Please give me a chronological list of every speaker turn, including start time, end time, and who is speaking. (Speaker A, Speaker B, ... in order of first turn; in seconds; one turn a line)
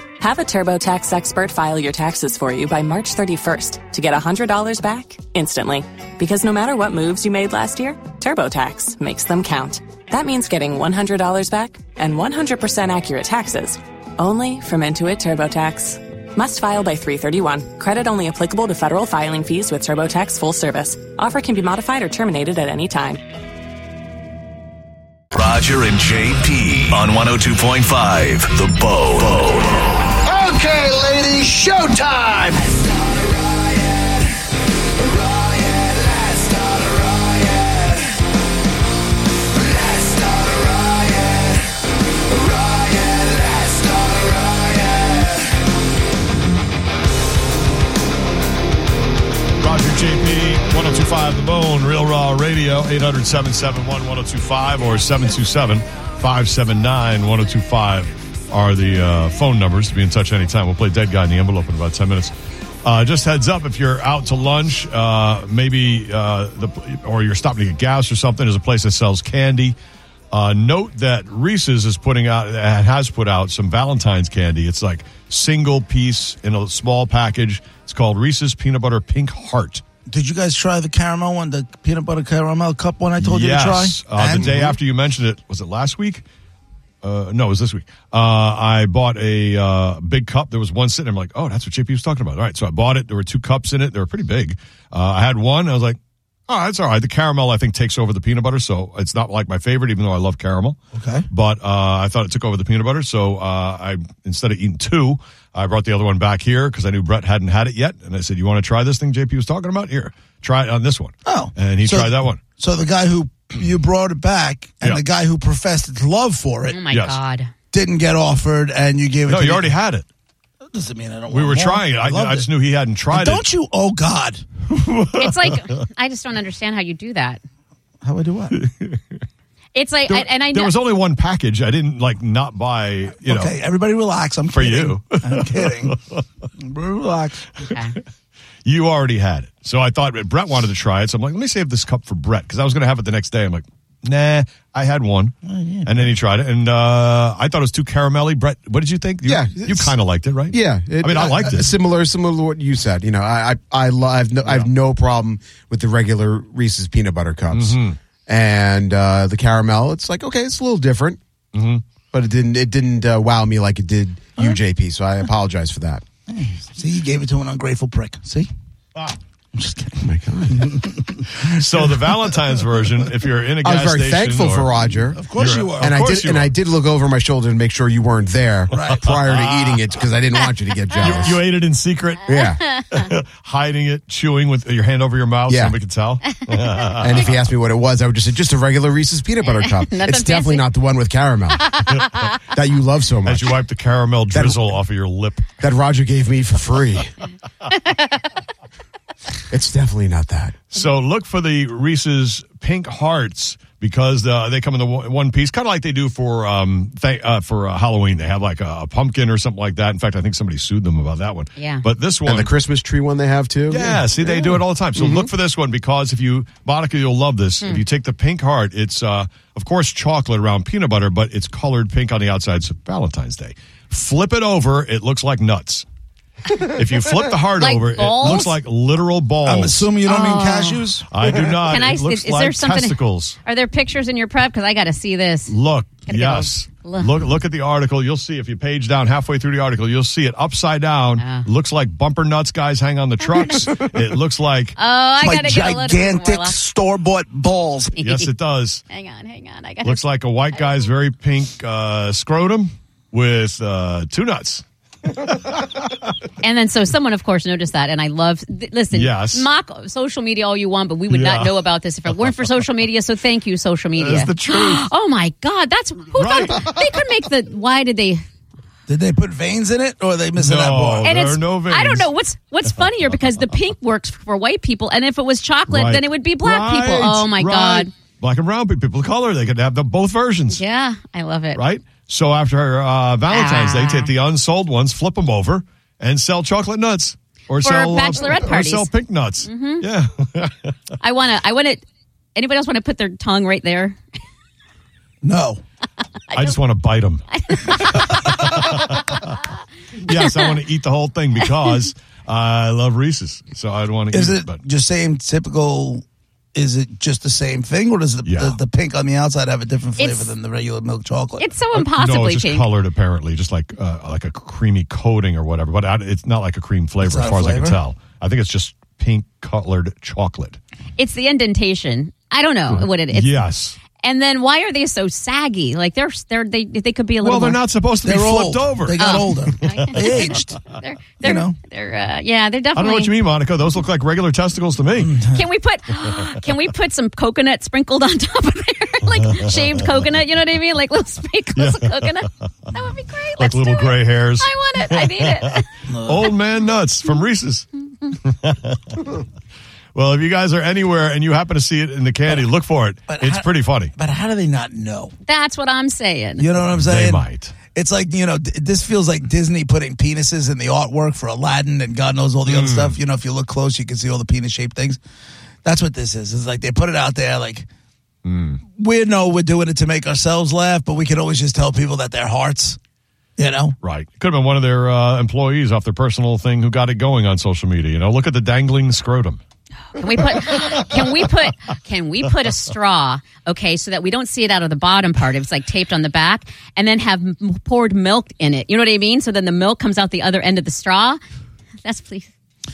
Speaker A: 0.2-23.2
Speaker B: 25.3-30.3
Speaker C: 30.4-32.6
Speaker D: 49.6-69.8
Speaker D: 70.3-79.8
Speaker E: 80.1-84.8
Speaker D: 83.2-86.2
Speaker D: 87.0-96.0
Speaker D: 96.5-112.4
Speaker E: 100.9-101.3
Speaker E: 111.3-116.8
Speaker F: 116.7-117.5
Speaker D: 116.9-117.2
Speaker E: 117.7-119.7
Speaker D: 119.3-120.1
Speaker E: 120.7-122.5
Speaker D: 121.3-123.5
Speaker E: 123.1-124.5
Speaker D: 124.7-125.6
Speaker F: 125.1-127.4
Speaker E: 128.0-128.6
Speaker D: 128.5-129.0
Speaker F: 129.7-130.7
Speaker D: 130.1-133.6
Speaker E: 133.3-136.0
Speaker D: 134.5-136.2
Speaker E: 136.6-137.5
Speaker F: 137.6-138.0
Speaker D: 138.7-151.7
Speaker E: 145.5-145.9
Speaker G: 149.2-150.0
Speaker G: 150.5-161.2
Speaker D: 157.5-158.0
Speaker D: 161.5-161.8
Speaker G: 162.1-166.0
Speaker E: 166.3-168.5
Speaker E: 169.5-172.0
Speaker G: 170.0-170.8
Speaker D: 171.3-176.5
Speaker G: 173.6-181.4
Speaker E: 175.2-176.1
Speaker E: 178.7-179.2
Speaker D: 178.9-179.8
Speaker D: 181.0-187.4
Speaker G: 182.3-182.8
Speaker G: 185.5-185.8
Speaker G: 187.0-193.6
Speaker F: 189.5-190.7
Speaker F: 191.7-192.4
Speaker D: 193.2-195.5
Speaker G: 194.3-194.6
Speaker G: 195.6-197.1
Speaker F: 197.7-198.1
Speaker G: 199.5-200.6
Speaker D: 200.7-212.5
Speaker F: 211.6-211.8
Speaker G: 212.3-215.3
Speaker D: 213.7-225.8
Speaker D: 226.5-229.9
Speaker F: 227.6-228.6
Speaker E: 229.4-231.1
Speaker F: 230.1-230.8
Speaker D: 231.1-233.4
Speaker F: 231.6-235.6
Speaker D: 235.5-244.8
Speaker F: 236.1-237.1
Speaker F: 241.2-241.5
Speaker F: 244.8-246.6
Speaker E: 245.2-247.9
Speaker F: 248.0-248.3
Speaker D: 248.0-248.8
Speaker F: 248.9-250.0
Speaker D: 249.8-255.7
Speaker F: 256.4-268.2
Speaker D: 258.9-259.5
Speaker D: 261.1-261.6
Speaker D: 264.0-264.9
Speaker D: 266.1-266.9
Speaker E: 268.9-271.1
Speaker D: 270.4-272.1
Speaker F: 271.0-277.9
Speaker D: 275.7-280.6
Speaker F: 280.5-281.6
Speaker D: 281.6-290.7
Speaker F: 283.3-284.1
Speaker F: 287.6-288.9
Speaker F: 289.4-289.9
Speaker F: 291.0-291.8
Speaker F: 292.4-294.0
Speaker E: 295.2-295.6
Speaker F: 296.3-296.6
Speaker D: 296.3-299.4
Speaker F: 297.3-298.7
Speaker D: 300.0-304.6
Speaker F: 300.1-300.6
Speaker E: 304.1-311.5
Speaker D: 308.2-308.6
Speaker F: 310.0-310.3
Speaker F: 311.4-312.7
Speaker D: 311.7-320.6
Speaker E: 317.0-317.8
Speaker F: 321.0-323.4
Speaker D: 322.7-323.8
Speaker F: 324.0-327.6
Speaker D: 327.2-330.3
Speaker E: 328.0-330.6
Speaker F: 329.0-333.1
Speaker E: 331.2-331.6
Speaker D: 332.7-335.2
Speaker E: 335.0-335.4
Speaker F: 335.3-345.8
Speaker D: 341.6-342.2
Speaker D: 343.4-349.2
Speaker E: 345.9-346.3
Speaker D: 349.9-353.9
Speaker E: 353.1-355.1
Speaker F: 355.2-356.5
Speaker E: 356.4-365.0
Speaker D: 356.7-357.6
Speaker D: 362.5-363.0
Speaker E: 365.6-367.7
Speaker D: 368.2-368.6
Speaker E: 368.8-372.8
Speaker E: 373.4-373.8
Speaker D: 373.8-379.4
Speaker F: 379.9-391.2
Speaker F: 391.8-392.3